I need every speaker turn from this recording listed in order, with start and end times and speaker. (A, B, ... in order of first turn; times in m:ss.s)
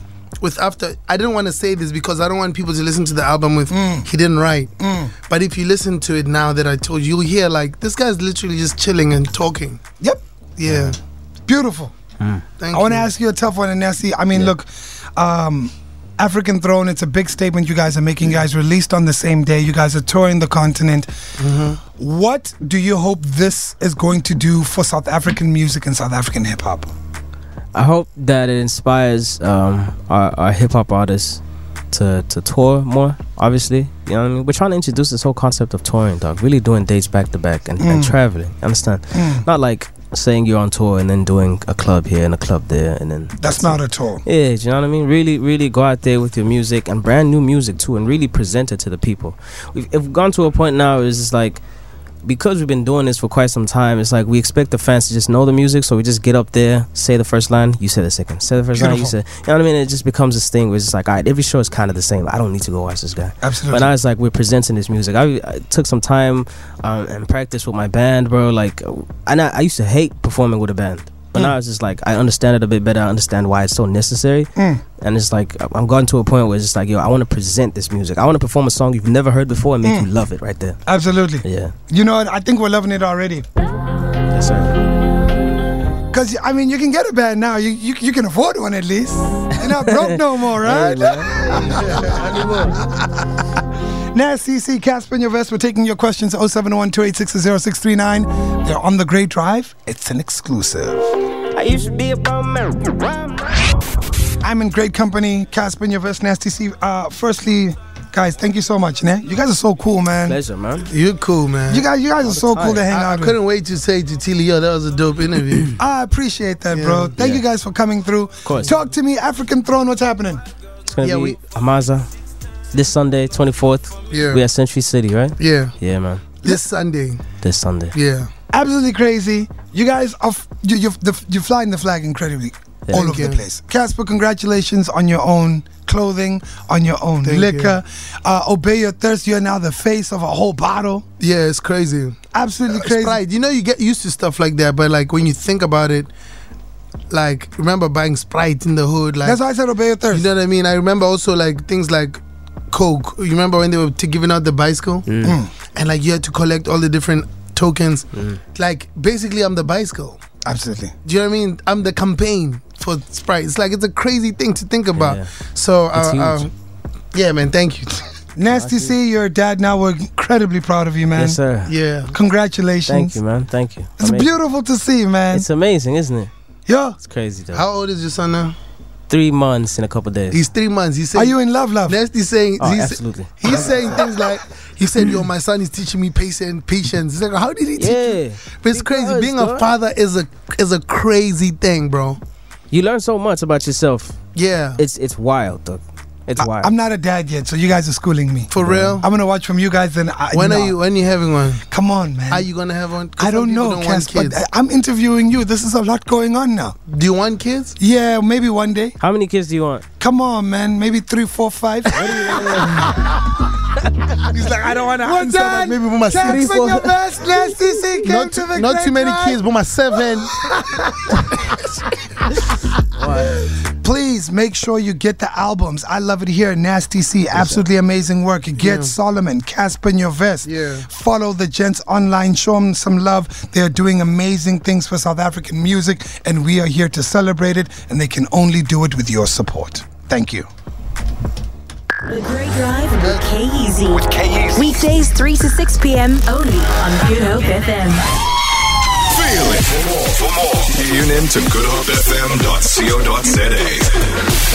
0:00.4-0:09.8 A
0:03.7-0:04.1 B
0:04.8-0:05.1 B
0:10.6-0:11.0 A
0:11.5-0:11.9 B
0:12.6-0:13.1 A
0:12.7-0:21.1 B
0:21.4-0:21.8 A
0:22.0-0:26.9 B
0:27.7-0:51.6 C
0:37.8-0:38.2 B
0:39.1-0:39.4 B
0:43.4-0:44.2 B
0:52.2-1:20.8 C
0:58.7-0:59.1 B
1:03.4-1:03.9 B
1:14.6-1:14.8 B
1:19.8-1:20.1 B
1:20.8-1:23.4 B
1:21.4-1:21.7 C
1:24.3-1:24.7 C
1:26.1-1:32.1 B
1:29.8-1:32.0 C
1:31.4-1:32.9 A
1:34.1-1:41.1 B
1:41.5-1:43.3 C
1:44.4-1:50.4 B
1:50.2-1:50.9 C
1:50.9-1:51.9 A
1:51.7-1:53.4 B
1:52.2-1:52.9 C
1:52.9-1:55.8 A
1:55.8-2:00.4 B
1:56.7-1:57.2 A
1:57.2-1:57.4 C
1:58.4-1:58.7 C
2:00.9-2:02.1 C
2:01.0-2:01.4 A
2:02.7-2:06.2 C
2:04.1-2:04.4 A
2:05.4-2:05.7 A
2:06.4-2:07.2 A
2:07.4-2:08.0 C
2:07.9-2:08.3 A
2:08.5-2:21.0 B
2:12.9-2:13.4 A
2:17.2-2:17.8 A
2:21.2-2:22.2 A
2:22.3-2:23.2 B
2:22.7-2:26.1 A
2:27.1-2:29.4 A
2:29.2-2:30.3 B
2:30.1-2:35.1 A
2:35.1-2:35.4 C
2:35.2-2:35.5 B
2:35.7-2:40.2 A
2:38.1-2:38.4 C
2:40.4-2:40.9 B
2:41.0-2:46.5 A
2:44.9-2:45.3 C
2:45.9-2:46.4 C
2:47.1-2:48.1 A
2:48.4-2:51.4 B
2:48.5-2:48.9 C
2:51.1-2:51.7 C
2:51.7-2:52.1 A
2:52.1-2:53.2 B
2:52.9-2:54.4 C
2:54.0-2:55.5 B
2:55.3-2:56.3 C
2:56.7-2:57.0 B
2:57.0-2:57.6 C
2:57.5-2:58.6 A
2:59.1-3:00.4 C
3:00.3-3:12.2 A
3:01.1-3:02.0 B
3:02.6-3:03.7 C
3:03.5-3:04.0 B
3:07.8-3:09.7 C
3:12.7-3:14.2 C
3:14.4-3:14.8 A
3:14.8-3:16.7 C
3:16.4-3:20.8 B
3:18.5-3:19.1 A
3:18.6-3:19.0 C
3:20.3-3:21.6 A
3:21.7-3:22.5 B
3:22.3-3:24.4 A
3:23.2-3:26.8 B
3:26.9-3:27.8 A
3:27.8-3:29.0 B
3:29.0-3:29.8 C
3:30.0-3:33.2 B
3:32.0-3:33.1 A
3:32.1-3:32.9 C
3:34.2-3:36.8 A
3:34.4-3:39.4 B
3:36.2-3:36.9 C
3:37.9-3:40.4 A
3:40.1-3:41.4 B
3:43.0-3:43.4 C
3:43.8-4:00.5 B
3:47.4-3:47.6 C
3:48.6-3:48.9 A
3:50.4-3:50.9 A
4:02.1-4:08.0 D
4:04.0-4:04.7 E
4:09.1-4:14.1 E